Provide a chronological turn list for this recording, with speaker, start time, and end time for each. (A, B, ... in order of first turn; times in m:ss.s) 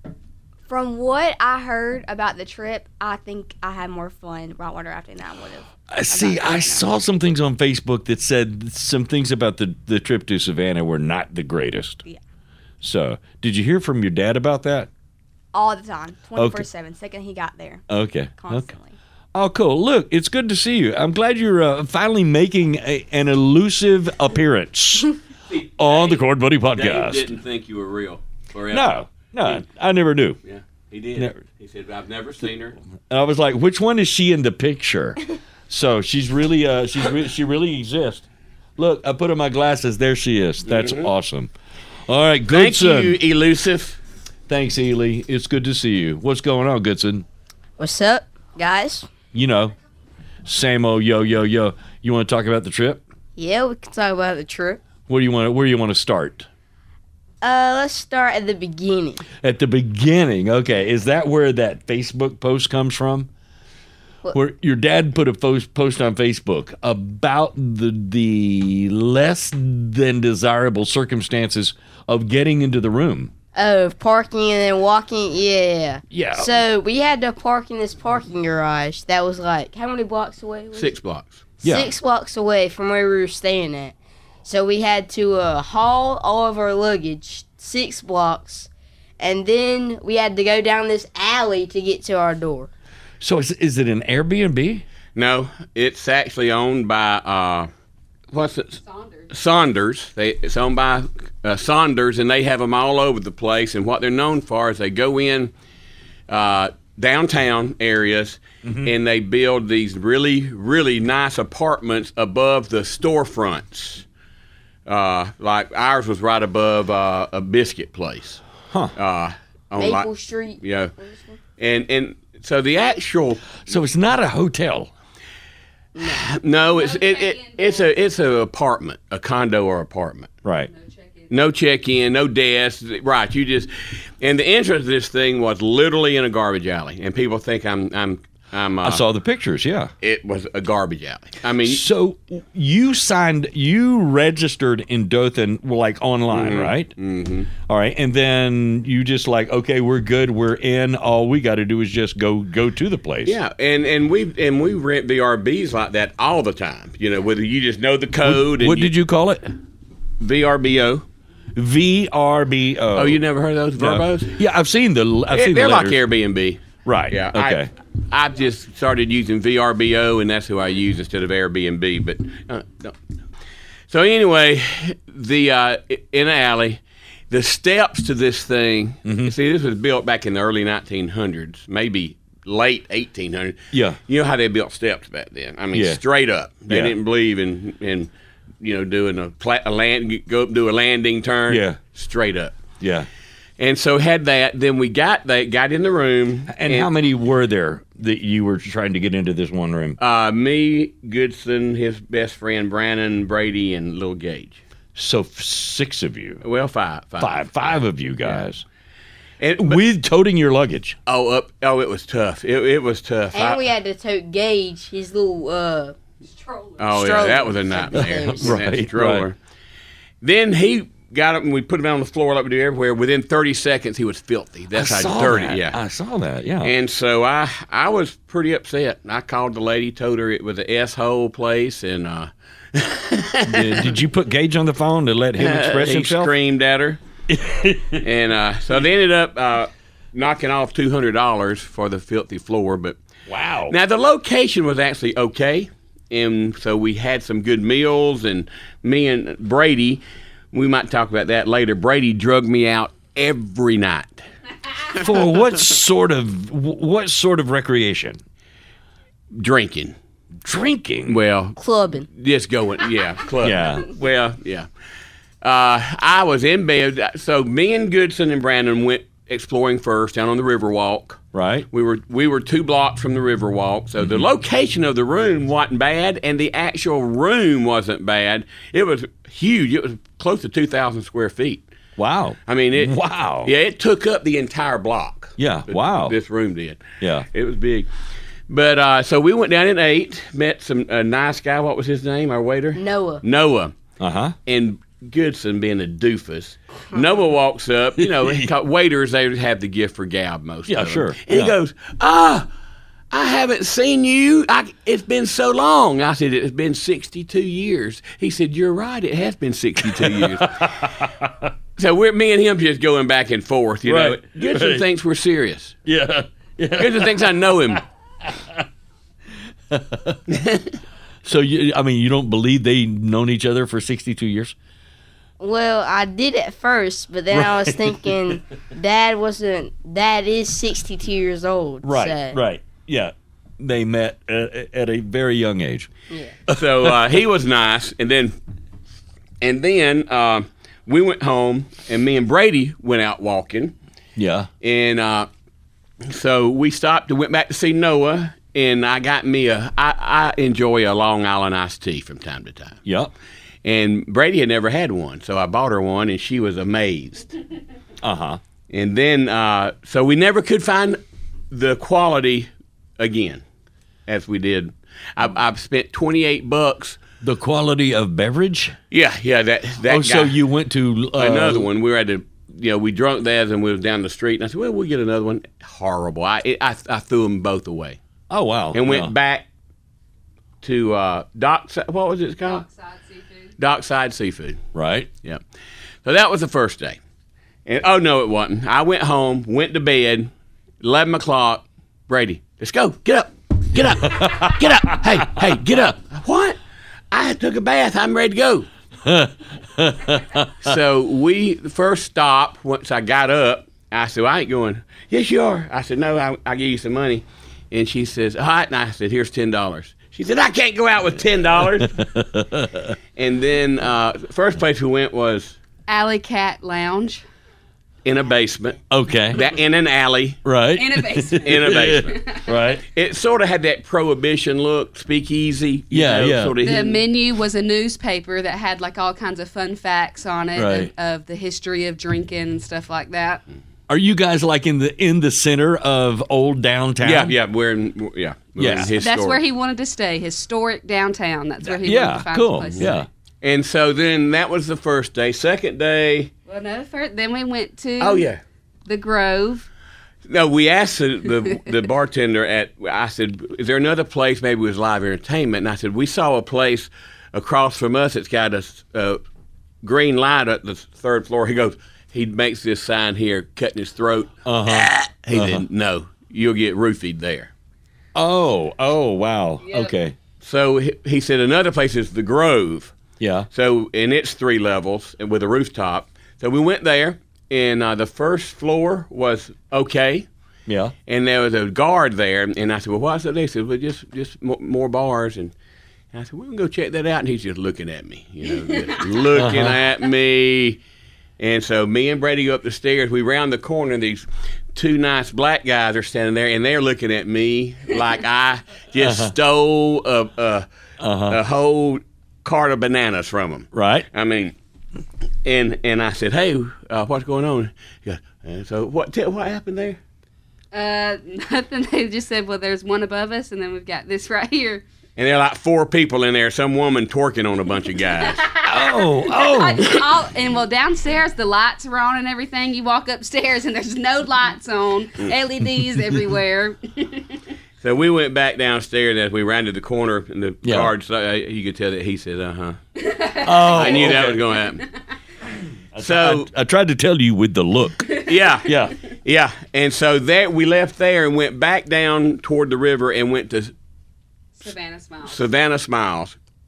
0:00.7-0:06.9 A
0:05.9-0:12.0 B
0:12.8-0:14.9 B
0:15.5-0:19.0 A
0:16.4-0:16.6 B
0:17.9-0:18.7 B
0:19.3-0:25.2 B
0:25.5-0:29.6 C
0:25.8-0:27.3 B
0:28.7-0:30.4 B
0:30.4-0:32.8 C
0:33.1-0:38.2 B
0:38.8-0:41.5 B
0:40.6-0:41.1 C
0:42.1-0:43.2 B
0:42.5-0:44.0 C
0:44.5-0:47.2 B
0:47.8-0:49.1 D
0:49.3-0:49.7 B
0:50.4-0:53.0 B
0:53.4-0:54.8 D
0:55.1-0:56.5 B
0:57.4-0:59.2 D
0:59.4-1:03.3 B
1:04.3-1:13.3 B
1:13.5-1:20.9 D
1:16.1-1:16.6 B
1:20.7-1:21.4 C
1:21.6-1:21.9 B
1:21.6-1:32.7 D
1:33.2-1:34.8 B
1:35.1-1:37.7 C
1:38.3-1:45.5 C
1:38.8-1:39.3 E
1:46.3-1:54.0 C
1:48.6-1:48.9 B
1:54.8-1:58.4 C
1:58.7-1:58.9 B
1:59.0-2:00.1 C
1:59.8-2:01.4 D
2:00.6-2:00.9 C
2:01.6-2:03.6 C
2:03.6-2:04.9 B
2:06.0-2:06.2 D
2:06.0-2:10.3 C
2:06.6-2:07.9 E
2:10.4-2:10.7 B
2:10.7-2:11.3 E
2:11.3-2:19.0 C
2:18.8-2:19.9 B
2:20.0-2:21.8 C
2:21.6-2:26.9 B
2:26.3-2:27.5 C
2:27.7-2:33.4 B
2:33.2-2:38.9 C
2:38.2-2:39.5 B
2:40.2-2:41.0 C
2:41.5-2:43.2 B
2:42.9-2:44.4 C
2:43.8-2:46.0 B
2:45.3-2:53.0 C
2:46.8-2:47.7 B
2:53.9-3:12.6 C
2:59.0-2:59.3 B
3:03.7-3:04.0 B
3:05.7-3:06.0 B
3:06.7-3:06.9 B
3:11.5-3:11.8 B
3:12.8-3:13.1 B
3:13.6-3:16.9 C
3:16.5-3:20.0 B
3:20.0-3:24.6 C
3:24.9-3:26.4 B
3:26.4-3:28.4 C
3:27.2-3:28.6 B
3:29.4-3:29.8 C
3:29.6-3:31.0 B
3:31.0-3:33.6 C
3:33.3-3:36.0 D
3:36.3-3:36.8 E
3:36.8-3:39.4 C
3:36.9-3:38.6 D
3:37.9-3:39.3 B
3:40.2-3:45.8 C
3:44.7-3:46.7 B
3:46.6-3:54.0 C
3:53.4-3:56.3 B
3:55.4-3:57.0 C
3:57.3-3:58.0 B
3:58.0-4:03.0 C
4:03.3-4:03.7 B
4:03.7-4:14.2 C
4:14.9-4:18.2 B
4:19.3-4:20.0 C
4:20.4-4:21.2 B
4:21.1-4:24.7 C
4:21.6-4:22.1 D
4:23.4-4:23.9 B
4:25.4-4:41.6 C
4:31.3-4:31.7 B
4:42.0-4:43.5 B
4:42.5-4:47.9 C
4:45.4-4:46.2 B
4:47.0-4:47.3 B
4:48.5-4:53.8 C
4:52.7-4:53.2 D
4:54.0-4:54.4 B
4:54.4-5:02.5 C
4:58.0-4:58.5 B
5:00.7-5:01.6 B
5:03.1-5:10.8 C
5:09.8-5:11.5 B
5:11.8-5:15.8 C
5:13.8-5:14.8 B
5:15.8-5:18.6 B
5:16.8-5:17.8 C
5:19.7-5:20.3 B
5:20.3-5:20.7 C
5:21.2-5:24.5 B
5:25.4-5:32.4 D
5:27.3-5:28.4 B
5:31.8-5:35.9 B
5:36.1-5:36.4 D
5:36.5-5:37.2 B
5:36.5-5:38.3 C
5:39.4-5:43.7 C
5:44.2-5:44.5 B
5:44.6-5:45.3 C
5:46.0-5:52.8 C
5:52.8-5:53.1 B
5:53.6-5:57.3 C
5:58.0-5:58.4 B
5:58.7-6:03.4 C
6:04.1-6:07.0 C
6:07.2-6:08.8 B
6:08.9-6:10.4 C
6:09.9-6:11.7 B
6:11.2-6:18.0 C
6:18.3-6:19.1 B
6:18.7-6:19.4 C
6:20.6-6:22.6 C
6:22.4-6:23.5 E
6:23.6-6:24.6 C
6:24.7-6:25.1 B
6:26.0-6:27.0 C
6:27.6-6:30.3 C
6:30.8-6:36.6 C
6:34.1-6:35.0 B
6:37.1-6:38.7 C
6:39.0-6:40.7 B
6:40.6-6:51.9 C
6:51.8-6:52.9 B
6:53.2-6:55.6 C
6:55.9-6:57.2 E
6:58.0-7:00.4 C
6:58.9-6:59.4 B
7:00.4-7:02.8 B
7:00.8-7:02.5 E
7:01.4-7:02.2 C
7:02.8-7:07.0 C
7:05.9-7:06.5 B
7:06.6-7:13.4 E
7:10.5-7:10.9 B
7:13.9-7:17.3 B
7:17.0-7:19.4 C
7:18.6-7:18.9 B
7:18.9-7:23.0 E
7:21.7-7:23.1 B
7:22.7-7:26.3 C
7:26.5-7:28.3 E
7:28.0-7:28.4 C
7:28.8-7:29.7 E
7:30.3-7:39.2 C
7:39.8-7:47.5 C
7:44.4-7:45.6 B
7:48.1-7:50.2 B
7:49.6-7:49.9 E
7:50.4-7:53.0 C
7:53.2-7:53.5 B
7:53.5-8:00.3 C
8:00.7-8:00.9 B
8:01.1-8:05.5 C
8:06.1-8:10.8 C
8:08.6-8:09.0 E
8:09.4-8:09.8 B
8:11.4-8:20.6 C
8:19.0-8:19.3 B
8:21.0-8:21.4 B
8:21.3-8:24.5 C
8:23.7-8:24.1 B
8:25.4-8:30.0 C
8:30.7-8:34.8 E
8:35.2-8:38.4 C
8:38.3-8:47.4 E
8:38.6-8:40.0 B
8:47.8-8:52.8 C
8:50.6-8:50.9 B
8:53.0-8:54.3 E
8:53.4-8:54.4 B
8:53.6-8:54.8 C
8:55.9-8:59.0 B
8:56.0-8:56.5 C
8:58.2-9:03.7 C
9:04.6-9:05.4 E
9:05.2-9:06.4 C